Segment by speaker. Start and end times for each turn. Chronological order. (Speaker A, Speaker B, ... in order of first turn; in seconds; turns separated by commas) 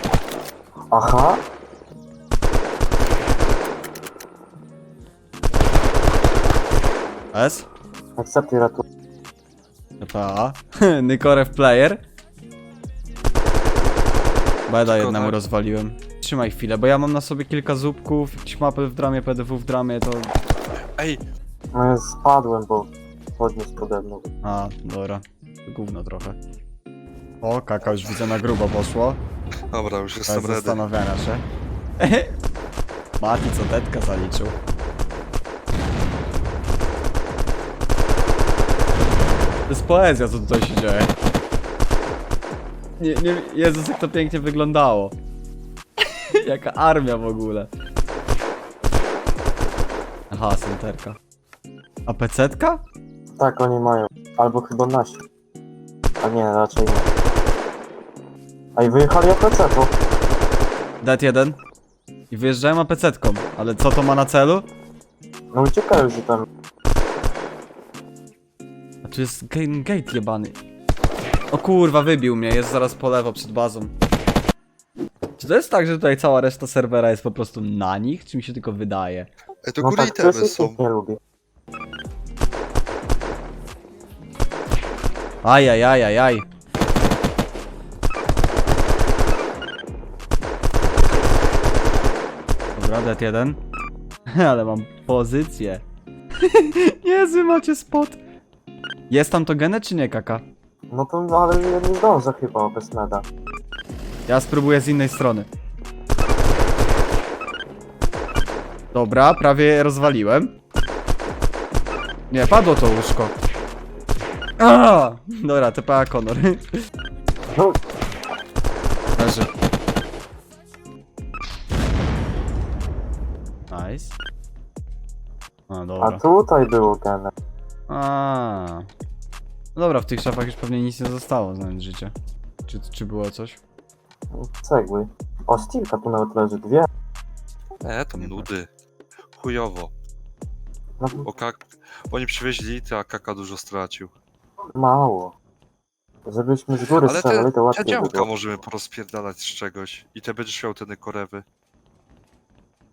Speaker A: 0.9-1.4, Speaker B: 7.3-7.7, Speaker A: 8.2-8.8, Speaker B: 10.0-12.0, Speaker B: 14.7-20.3, Speaker C: 14.8-15.4, Speaker A: 21.8-24.3, Speaker B: 24.4-26.4, Speaker B: 27.4-29.2, Speaker C: 29.7-30.8, Speaker B: 30.3-31.4, Speaker B: 32.0-32.4, Speaker B: 33.2-34.6, Speaker B: 39.7-41.1, Speaker B: 43.0-45.1, Speaker B: 46.0-47.7, Speaker B: 50.3-51.2, Speaker B: 52.1-52.8, Speaker A: 53.4-55.2, Speaker A: 56.2-57.1, Speaker A: 58.8-59.9, Speaker B: 61.0-61.6, Speaker B: 62.3-64.7, Speaker A: 65.5-66.5, Speaker B: 69.0-70.6, Speaker B: 71.5-73.9, Speaker B: 75.4-79.3, Speaker C: 79.7-80.8, Speaker A: 79.8-81.2, Speaker B: 85.4-86.5, Speaker B: 92.8-93.6, Speaker B: 94.3-95.8, Speaker B: 96.4-98.2, Speaker B: 99.1-100.4, Speaker A: 100.9-103.2, Speaker B: 104.3-105.5, Speaker B: 108.9-110.5, Speaker B: 112.3-113.3, Speaker B: 114.6-116.7, Speaker B: 119.2-119.5, Speaker B: 123.7-124.2, Speaker B: 125.7-126.2, Speaker A: 126.0-127.3, Speaker B: 127.9-128.9, Speaker B: 129.8-132.1, Speaker B: 132.7-133.6, Speaker A: 134.3-136.9, Speaker C: 137.8-138.7, Speaker B: 138.2-138.5, Speaker C: 139.3-139.9, Speaker A: 141.0-141.3, Speaker C: 141.2-144.1, Speaker A: 144.8-145.3, Speaker A: 146.3-148.3, Speaker C: 147.0-151.4